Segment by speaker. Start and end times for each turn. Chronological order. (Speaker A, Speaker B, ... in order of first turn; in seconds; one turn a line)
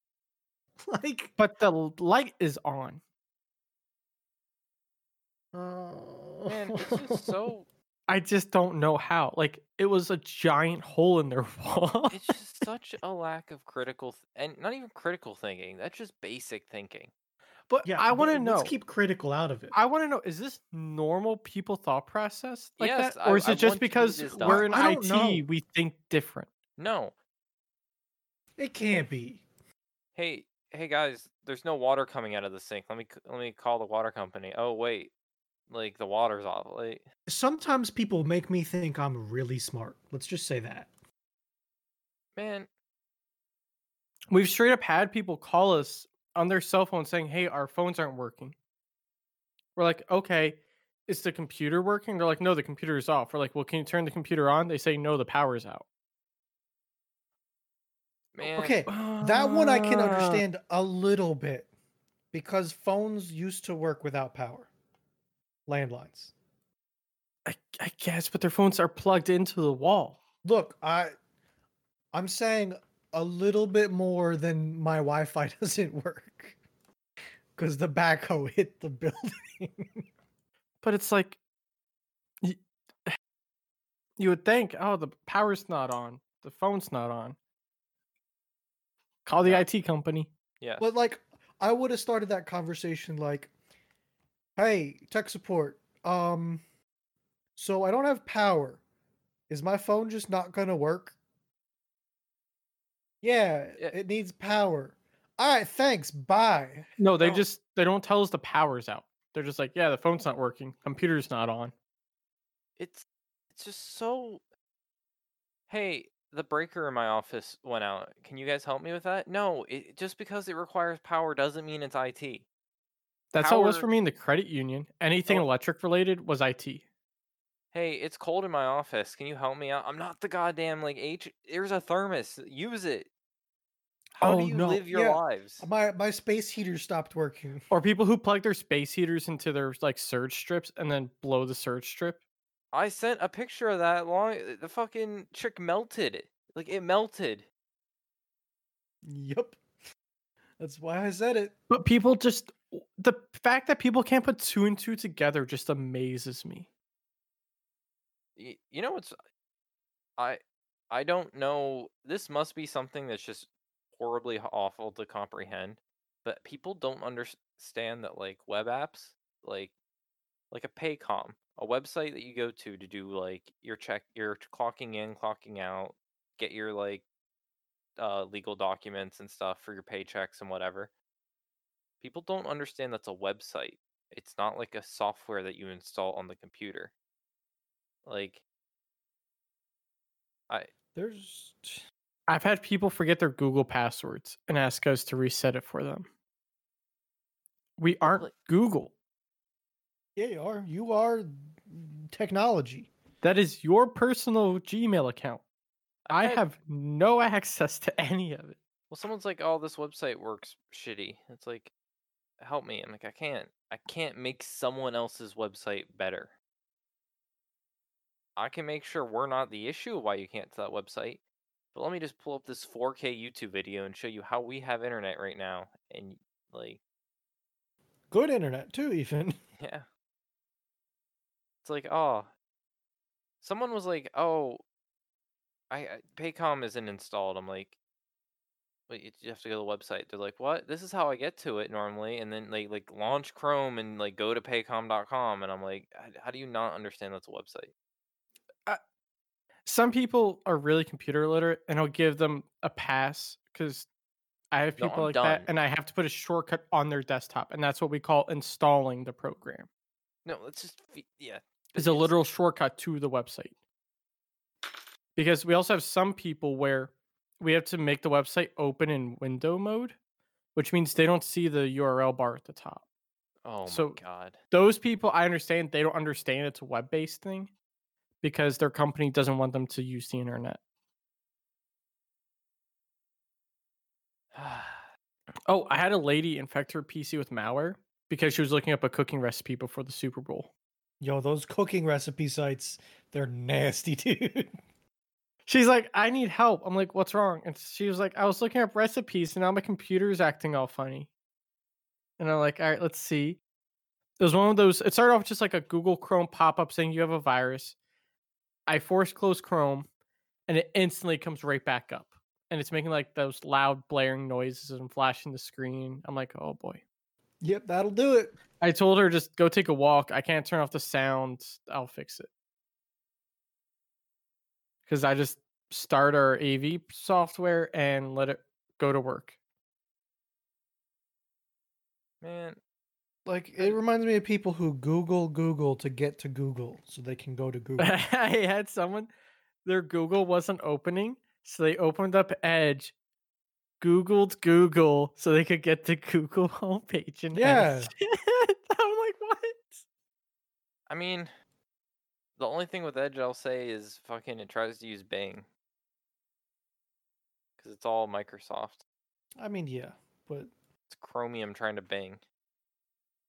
Speaker A: 0.8-1.3
Speaker B: 1.4-3.0
Speaker A: 5.5-7.3
Speaker C: 6.5-7.7
Speaker B: 8.1-12.3
Speaker C: 12.1-17.1
Speaker B: 17.7-18.7
Speaker A: 17.8-19.8
Speaker B: 19.7-26.5
Speaker C: 22.8-24.7
Speaker A: 24.4-25.4
Speaker C: 26.8-27.1
Speaker A: 28.6-29.4
Speaker C: 30.2-35.1
Speaker C: 35.7-37.0
Speaker A: 37.3-40.9
Speaker C: 42.4-42.7
Speaker B: 44.3-48.5
Speaker B: 49.8-55.9
Speaker C: 58.4-58.8
Speaker A: 58.4-61.7
Speaker B: 58.9-60.4
Speaker A: 62.3-64.7
Speaker A: 65.7-66.3
Speaker B: 67.5-70.2
Speaker A: 70.4-71.1
Speaker A: 72.1-76.6
Speaker A: 77.6-80.0
Speaker B: 80.8-81.4
Speaker B: 82.4-83.2
Speaker B: 84.2-87.4
Speaker B: 89.2-90.3
Speaker C: 89.4-89.7
Speaker C: 90.6-90.9
Speaker A: 90.8-93.5
Speaker A: 94.6-96.6
Speaker A: 97.6-98.8
Speaker A: 99.5-101.2
Speaker A: 103.2-107.4
Speaker B: 107.0-111.7
Speaker C: 112.8-114.4
Speaker C: 115.7-122.5
Speaker B: 123.3-126.8
Speaker C: 123.4-123.9
Speaker C: 127.7-133.1
Speaker C: 134.2-135.7
Speaker B: 134.2-134.8
Speaker A: 134.3-137.7
Speaker B: 137.7-142.2
Speaker C: 142.7-147.5
Speaker A: 149.0-149.6
Speaker A: 150.6-151.5
Speaker B: 151.7-156.7
Speaker C: 158.4-159.2
Speaker C: 160.2-169.7
Speaker C: 170.5-177.0
Speaker C: 178.0-180.9
Speaker C: 182.0-186.9
Speaker C: 188.1-188.4
Speaker A: 190.9-191.8
Speaker B: 192.3-196.1
Speaker B: 197.8-198.9
Speaker C: 198.0-198.3
Speaker A: 200.2-202.9
Speaker B: 203.2-205.4
Speaker C: 206.1-206.4
Speaker B: 206.1-208.6
Speaker C: 208.9-211.7
Speaker C: 212.4-216.3
Speaker C: 218.4-221.2
Speaker C: 221.7-226.8
Speaker A: 228.1-229.4
Speaker C: 229.6-229.9
Speaker C: 231.6-232.3
Speaker C: 233.4-234.6
Speaker C: 235.7-237.8
Speaker C: 238.9-247.7
Speaker B: 249.7-253.9
Speaker B: 254.5-259.7
Speaker C: 254.8-255.5
Speaker C: 260.2-262.2
Speaker B: 261.8-263.5
Speaker B: 265.2-270.0
Speaker B: 270.6-272.8
Speaker C: 273.4-274.4
Speaker B: 273.6-274.0
Speaker B: 274.5-277.5
Speaker B: 278.2-280.6
Speaker C: 284.3-284.9
Speaker B: 285.5-290.5
Speaker A: 291.0-294.5
Speaker B: 295.5-301.1
Speaker B: 302.2-303.4
Speaker B: 304.2-307.8
Speaker B: 308.7-309.9
Speaker B: 310.5-316.8
Speaker A: 317.4-318.4
Speaker B: 318.6-322.3
Speaker B: 324.9-329.4
Speaker C: 332.2-332.6
Speaker A: 333.3-337.9
Speaker B: 337.8-339.1
Speaker B: 339.6-342.9
Speaker B: 343.8-349.8
Speaker A: 347.3-347.9
Speaker C: 350.9-351.3
Speaker C: 352.4-355.5
Speaker C: 357.6-358.8
Speaker A: 359.4-360.5
Speaker C: 360.9-362.2